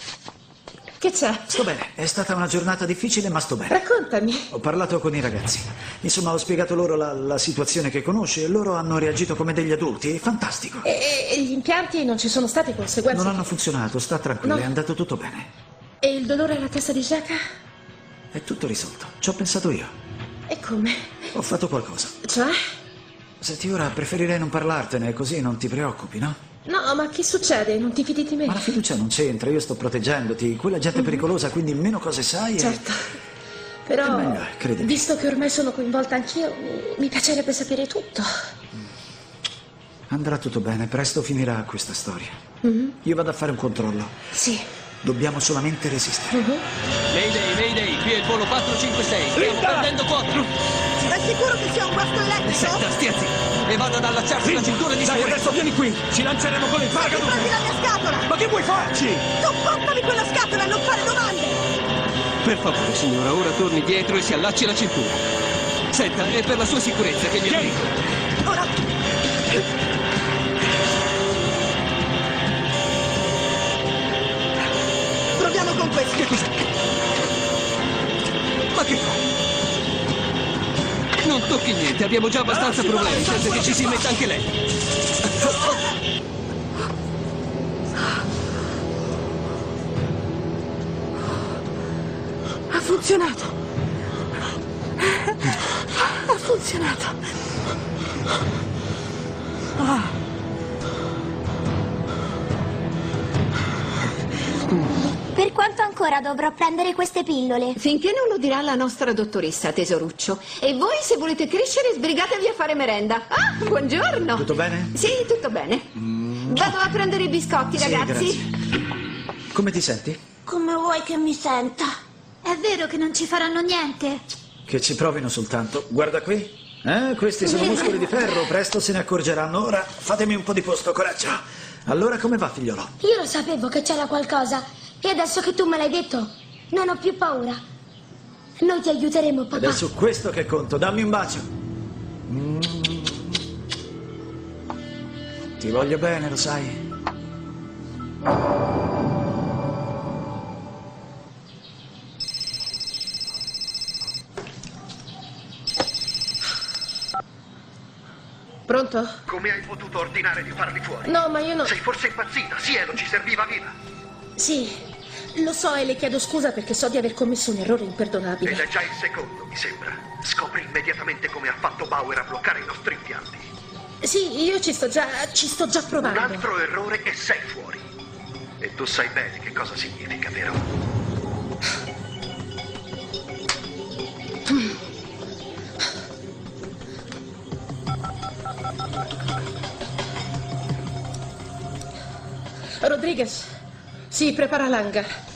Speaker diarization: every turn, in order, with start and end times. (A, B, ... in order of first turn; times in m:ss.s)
0:01.0-0:01.6 A
0:01.5-0:03.8 B
0:03.7-0:04.5 A
0:04.5-0:10.9 B
0:10.8-0:13.5 A
0:13.1-0:15.5 B
0:14.4-0:14.7 A
0:16.0-0:17.4 A
0:18.3-0:19.9 B
0:20.5-0:21.1 A
0:21.3-0:22.1 B
0:22.2-0:22.6 A
0:23.4-0:26.4 B
0:26.6-0:28.7 A
0:28.4-0:32.9 B
0:31.0-0:31.2 A
0:32.6-0:33.1 A
0:33.8-0:38.3 A
0:34.0-0:35.0 B
0:40.1-0:42.4 B
0:42.6-0:42.9 A
0:43.0-0:44.1 B
0:44.3-0:44.6 A
0:45.0-0:46.4 B
0:46.3-0:46.6 A
0:47.1-0:50.5 C
0:49.4-0:49.8 D
0:51.0-0:52.9 E
0:52.4-0:55.6 C
0:54.4-0:59.4 D
0:57.1-0:58.3 E
0:59.4-1:01.6 E
1:02.4-1:05.2 C
1:05.9-1:07.9 C
1:07.5-1:07.7 D
1:15.4-1:16.4 E
1:18.7-1:19.2 C
1:21.2-1:24.5 C
1:25.4-1:25.7 C
1:32.7-1:33.4 F
1:36.3-1:36.9 F
1:47.0-1:47.4 G
1:47.8-1:55.9 F
1:54.3-1:55.0 B
1:56.0-1:56.7 B
1:56.5-1:58.5 F
1:57.7-1:58.5 B
1:59.5-2:00.2 B
2:00.5-2:01.9 G
2:02.4-2:04.2 G
2:04.7-2:12.9 B
2:07.4-2:08.3 G
2:13.0-2:17.6 G
2:18.6-2:19.8 G
2:19.5-2:21.5 B
2:22.3-2:22.9 B
2:25.6-2:26.8 B
2:38.7-2:39.2 A
2:39.3-2:41.0 H
2:41.0-2:41.8 A
2:41.7-2:43.6 H
2:44.4-2:44.8 A
2:45.3-2:48.7 A
2:48.4-2:49.5 H
2:50.1-2:53.2 H
2:54.0-2:56.5 A
2:56.1-2:57.8 H
2:58.6-3:00.5 H
3:12.8-3:13.5 A
3:14.1-3:15.1 A